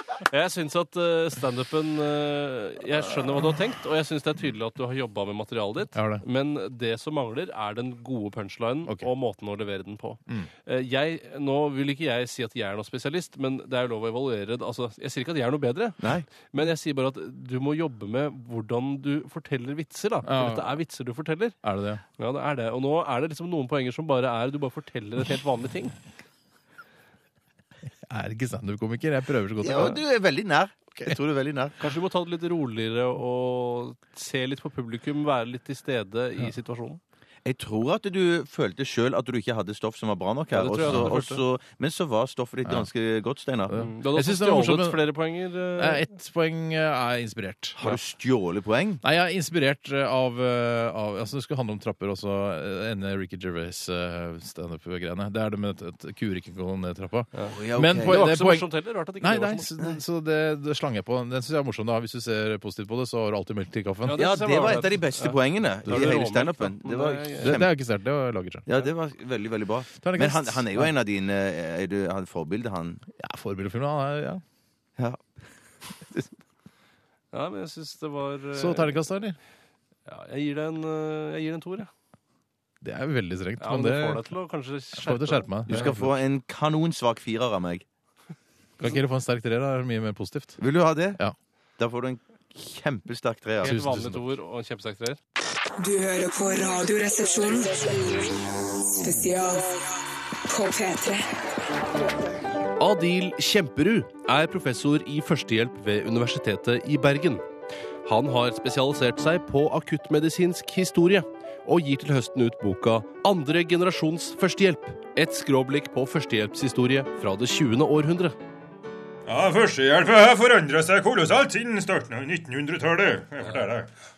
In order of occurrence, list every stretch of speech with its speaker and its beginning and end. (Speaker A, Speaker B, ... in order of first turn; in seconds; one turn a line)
Speaker A: 0.3-21.6
Speaker B: 5.9-6.2
Speaker B: 20.2-20.8
Speaker B: 21.6-22.0
Speaker A: 22.2-26.0
Speaker B: 28.1-30.0
Speaker C: 29.6-31.8
Speaker A: 31.8-37.0
Speaker C: 37.5-43.8
Speaker A: 40.5-41.4
Speaker B: 40.8-41.2
Speaker B: 43.7-45.1
Speaker A: 43.8-46.0
Speaker B: 45.8-48.0
Speaker C: 47.8-49.0
Speaker B: 49.0-64.4
Speaker A: 57.4-59.7
Speaker C: 57.5-58.3
Speaker A: 64.1-67.6
Speaker C: 64.1-67.7
Speaker B: 65.9-66.3
Speaker B: 67.4-68.7
Speaker C: 68.7-73.0
Speaker B: 70.0-70.9
Speaker B: 73.2-74.4
Speaker C: 75.0-76.3
Speaker A: 77.3-79.0
Speaker B: 78.5-79.4
Speaker A: 80.1-81.9
Speaker B: 82.8-84.3
Speaker A: 83.6-85.8
Speaker B: 84.9-86.2
Speaker C: 85.7-87.8
Speaker B: 88.8-90.6
Speaker C: 90.6-91.2
Speaker C: 91.8-93.7
Speaker B: 93.6-94.3
Speaker A: 93.6-95.2
Speaker D: 95.8-98.4
Speaker D: 99.0-99.8
Speaker D: 100.5-101.2
Speaker A: 102.8-107.5
Speaker A: 108.0-118.4
Speaker E: 119.3-123.9